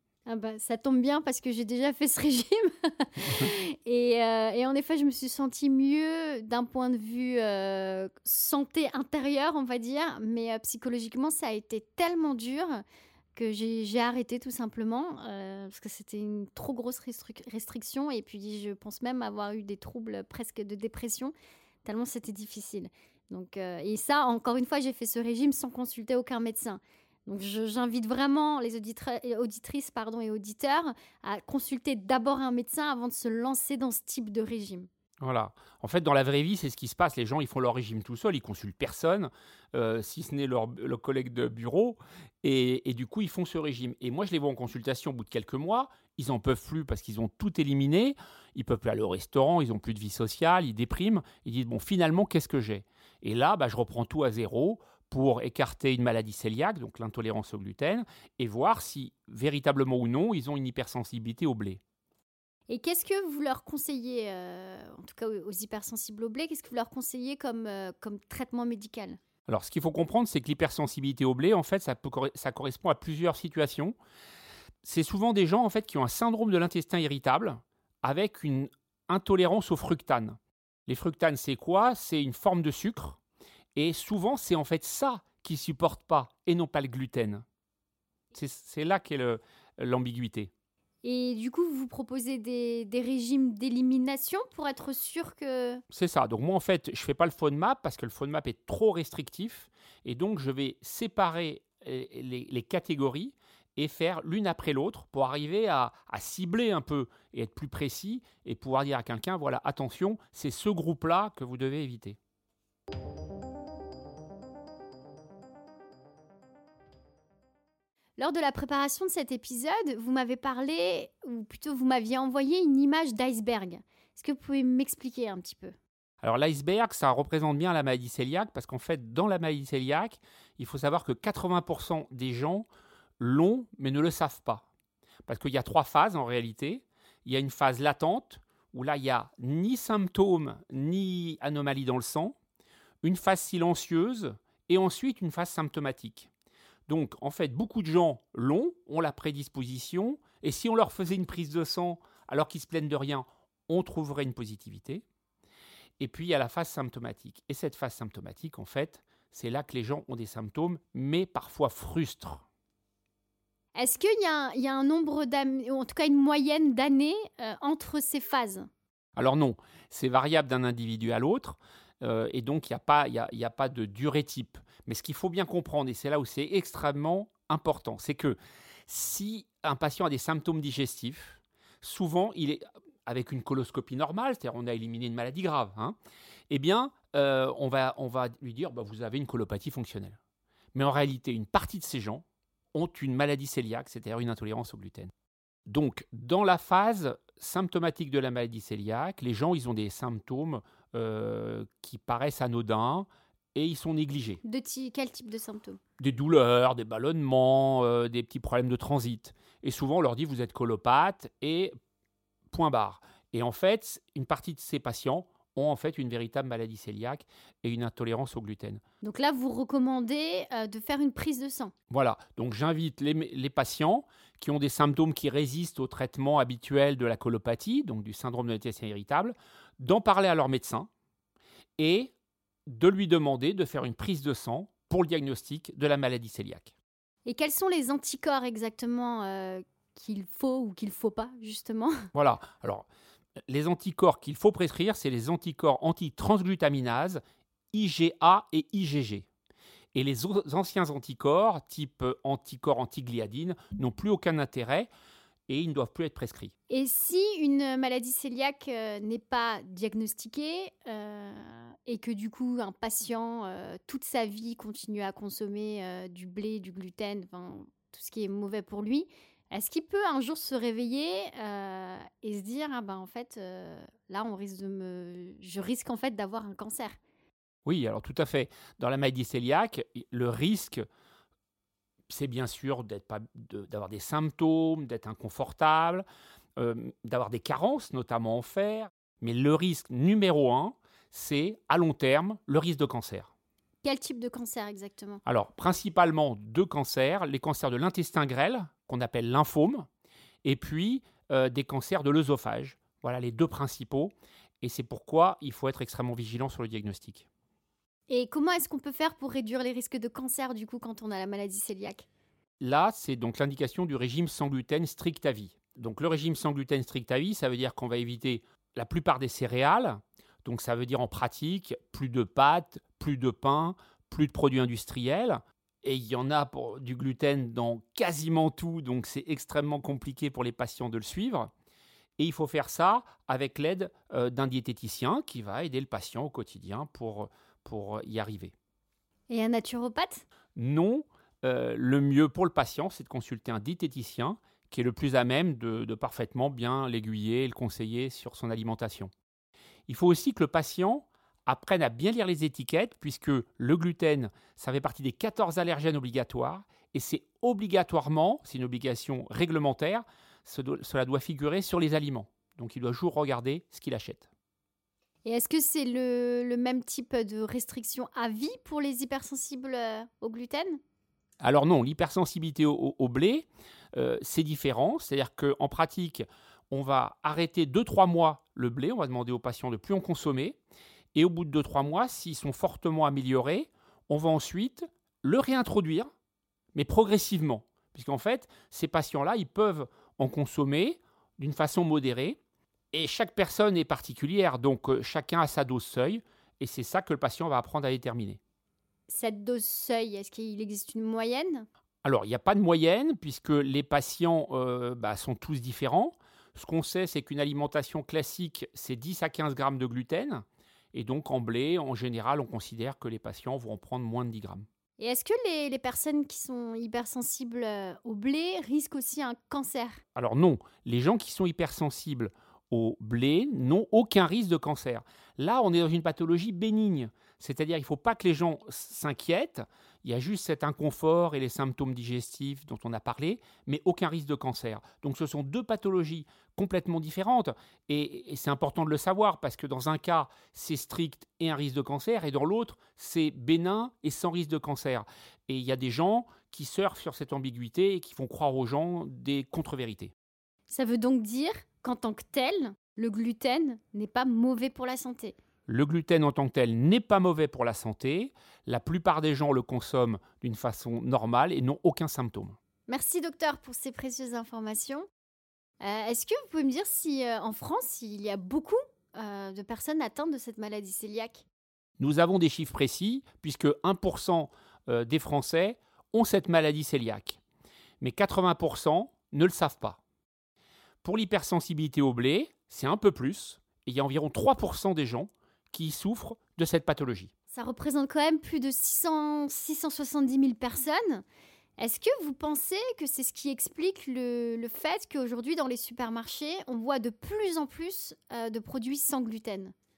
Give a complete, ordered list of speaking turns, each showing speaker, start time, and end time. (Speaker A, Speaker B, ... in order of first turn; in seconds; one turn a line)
Speaker A: 0.3-12.8
Speaker A: 13.3-34.9
Speaker B: 35.2-61.8
Speaker A: 62.7-69.2
Speaker B: 69.5-74.0
Speaker B: 74.8-83.2
Speaker B: 83.8-87.4
Speaker B: 88.3-90.5
Speaker A: 91.0-95.8
Speaker B: 95.9-112.2
Speaker A: 118.2-125.8
Speaker B: 126.2-132.7
Speaker B: 133.2-134.7
Speaker B: 135.3-142.4
Speaker B: 143.0-146.3
Speaker B: 146.9-155.1
Speaker B: 156.0-162.4
Speaker A: 163.8-168.7
Speaker B: 169.2-186.0
Speaker B: 186.5-190.2
Speaker B: 190.7-195.1
Speaker B: 195.7-204.4
Speaker A: 204.4-205.8
Speaker B: 206.0-211.7
Speaker B: 212.5-218.8
Speaker A: 219.0-221.7
Speaker B: 221.9-230.9
Speaker B: 231.8-232.1
Speaker B: 232.7-236.7
Speaker A: 237.2-242.1
Speaker B: 242.1-242.9
Speaker B: 243.5-247.2
Speaker B: 247.7-249.3
Speaker B: 249.9-254.9
Speaker B: 255.5-256.5
Speaker A: 256.7-277.0
Speaker B: 277.7-280.9
Speaker B: 282.1-286.0
Speaker B: 286.6-293.3
Speaker A: 293.8-295.2
Speaker B: 295.3-299.9
Speaker B: 300.4-307.3
Speaker A: 308.1-312.1
Speaker B: 312.6-331.5
Speaker B: 332.2-338.5
Speaker A: 339.3-340.2
Speaker B: 340.6-349.1
Speaker B: 349.9-364.3
Speaker A: 365.2-370.8
Speaker B: 371.4-380.6
Speaker B: 381.1-386.1
Speaker B: 386.7-392.4
Speaker B: 392.9-398.4
Speaker A: 399.1-401.7
Speaker B: 402.0-414.7
Speaker A: 415.0-420.0
Speaker B: 420.1-450.1
Speaker A: 450.7-455.4
Speaker B: 455.7-462.6
Speaker A: 462.9-465.1
Speaker A: 465.8-471.5
Speaker B: 472.0-477.4
Speaker B: 478.0-480.0
Speaker B: 481.0-487.3
Speaker A: 487.5-491.2
Speaker A: 491.8-499.7